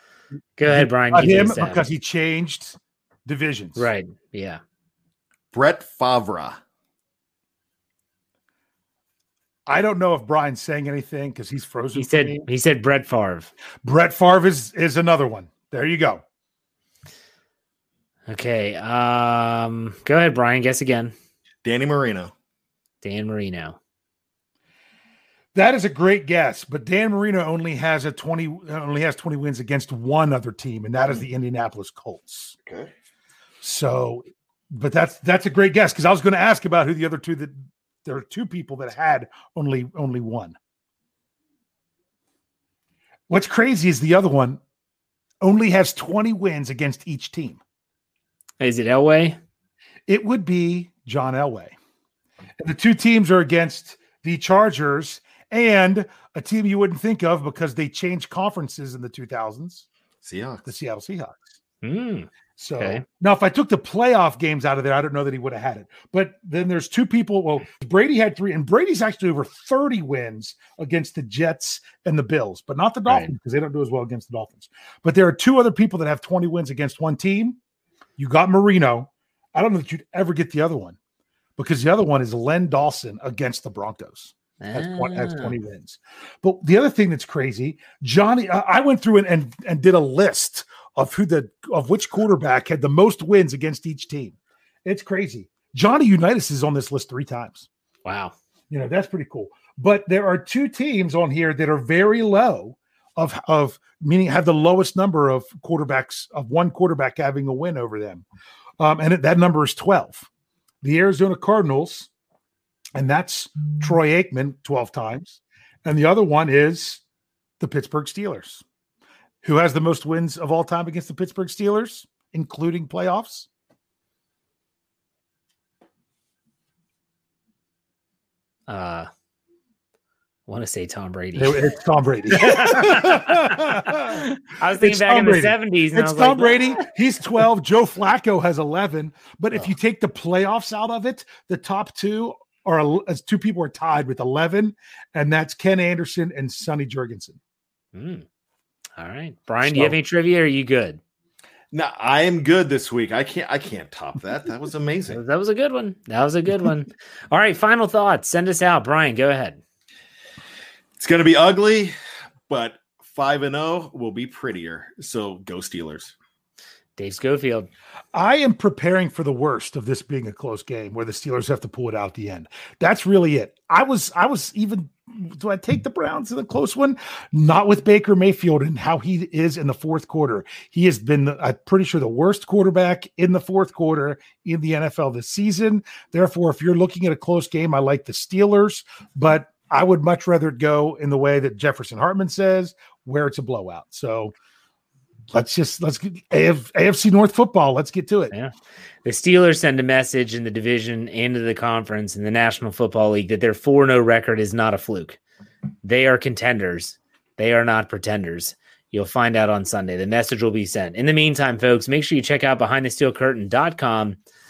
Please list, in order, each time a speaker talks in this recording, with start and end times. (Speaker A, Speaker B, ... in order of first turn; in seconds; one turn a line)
Speaker A: 0.6-1.9
Speaker B: 0.7-3.9
Speaker A: 3.8-4.6
Speaker C: 5.5-6.6
Speaker B: 9.7-12.5
Speaker A: 11.9-13.5
Speaker B: 13.8-16.2
Speaker A: 18.3-21.1
Speaker C: 21.6-22.3
Speaker A: 23.0-23.8
Speaker B: 25.5-32.5
Speaker C: 32.7-32.9
Speaker B: 33.6-40.6
Speaker B: 43.3-44.6
Speaker B: 45.4-47.6
Speaker A: 48.6-49.4
Speaker B: 50.1-51.8
Speaker B: 52.6-59.9
Speaker C: 60.2-60.7
Speaker B: 60.6-61.5
Speaker A: 61.8-63.0
Speaker B: 62.6-77.6
Speaker B: 78.2-81.0
Speaker B: 81.6-97.7
Speaker A: 84.6-85.6
Speaker A: 98.0-98.3
Speaker B: 98.7-108.3
Speaker B: 108.8-110.3
Speaker B: 110.8-112.1
Speaker B: 113.0-117.0
Speaker B: 117.6-118.6
Speaker B: 119.4-123.5
Speaker A: 128.7-129.1
Speaker A: 130.5-131.7
Speaker B: 131.4-147.4
Speaker A: 132.3-136.8
Speaker A: 147.9-148.2
Speaker A: 149.0-151.0
Speaker B: 149.6-150.0
Speaker C: 151.7-155.2
Speaker A: 155.1-159.6
Speaker C: 161.0-161.9
Speaker C: 162.5-166.1
Speaker A: 167.0-167.7
Speaker B: 168.1-194.3
Speaker B: 195.3-198.3
Speaker A: 199.1-205.2
Speaker A: 205.8-214.2